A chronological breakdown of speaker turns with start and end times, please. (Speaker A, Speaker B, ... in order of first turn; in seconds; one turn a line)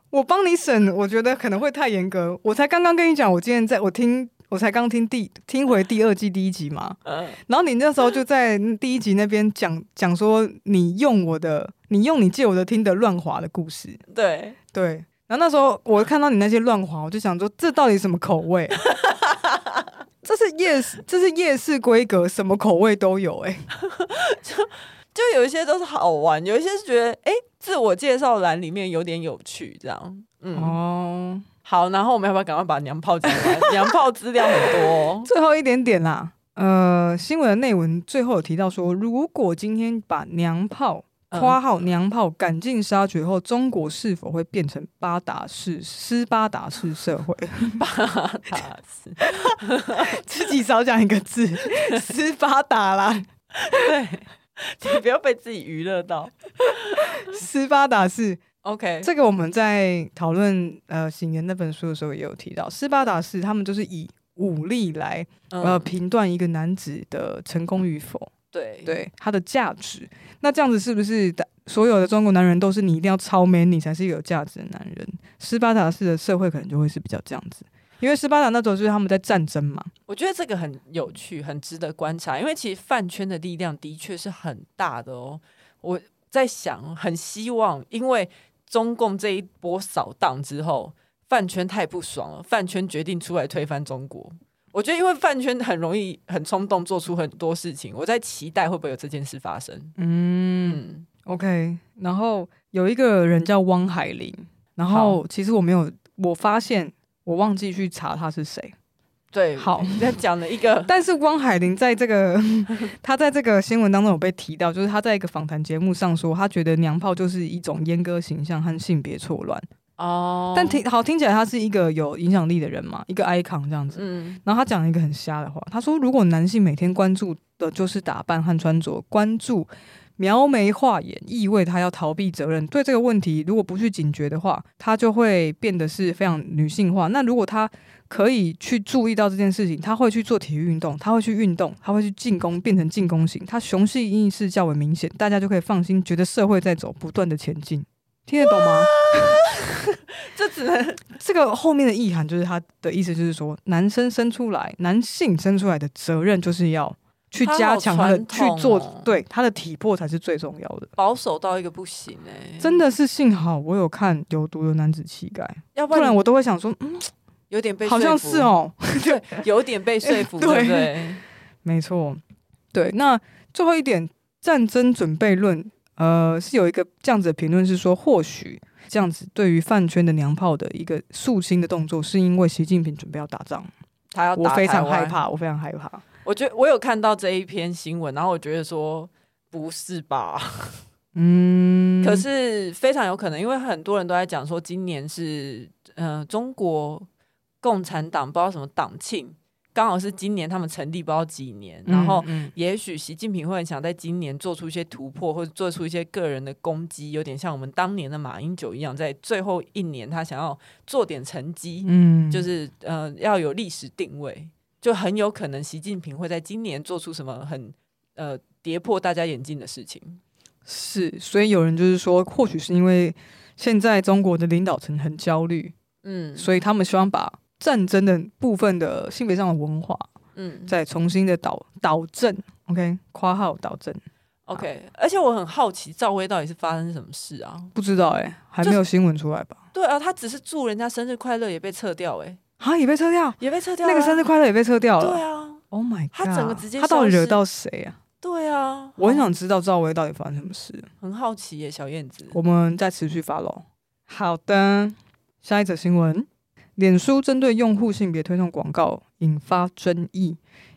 Speaker A: 0.1-14.0
Speaker B: 7.1-7.4
Speaker B: 14.1-14.6
Speaker A: 14.7-18.8
Speaker B: 18.8-19.9
Speaker A: 20.2-23.7
Speaker B: 23.8-30.8
Speaker A: 30.5-31.4
Speaker B: 31.6-35.3
Speaker A: 33.3-33.7
Speaker A: 35.2-47.8
Speaker B: 41.3-41.6
Speaker B: 47.8-50.1
Speaker A: 49.2-53.8
Speaker B: 51.7-52.0
Speaker B: 53.6-57.3
Speaker A: 57.1-58.4
Speaker B: 58.6-59.1
Speaker A: 59.0-68.3
Speaker B: 65.5-65.9
Speaker B: 68.5-69.0
Speaker A: 68.9-79.9
Speaker B: 80.1-99.9
Speaker A: 100.0-108.7
Speaker B: 100.7-101.1
Speaker B: 104.9-105.2
Speaker B: 109.3-110.9
Speaker A: 109.6-110.2
Speaker A: 110.9-119.7
Speaker B: 120.0-120.8
Speaker A: 120.5-149.4
Speaker B: 124.0-124.4
Speaker B: 148.4-151.1
Speaker A: 151.2-160.9
Speaker B: 157.4-159.1
Speaker B: 161.0-162.8
Speaker A: 162.6-167.1
Speaker B: 165.8-166.2
Speaker B: 167.5-171.2
Speaker A: 167.8-169.4
Speaker A: 170.1-171.1
Speaker A: 171.6-172.2
Speaker A: 172.7-183.7
Speaker B: 184.1-185.2
Speaker A: 184.4-186.0
Speaker B: 186.2-190.8
Speaker A: 191.2-192.2
Speaker B: 192.0-197.1
Speaker B: 197.6-220.2
Speaker A: 201.9-202.5
Speaker A: 211.8-212.5
Speaker A: 220.7-225.8
Speaker B: 226.0-226.5
Speaker A: 226.4-230.1
Speaker B: 230.3-230.8
Speaker A: 230.7-234.0
Speaker B: 234.5-237.7
Speaker A: 237.8-239.6
Speaker B: 239.7-242.4
Speaker A: 242.6-248.0
Speaker B: 243.4-244.3
Speaker B: 245.0-245.6
Speaker B: 246.1-247.4
Speaker B: 248.2-249.3
Speaker A: 249.0-250.9
Speaker B: 251.0-252.4
Speaker A: 252.3-260.4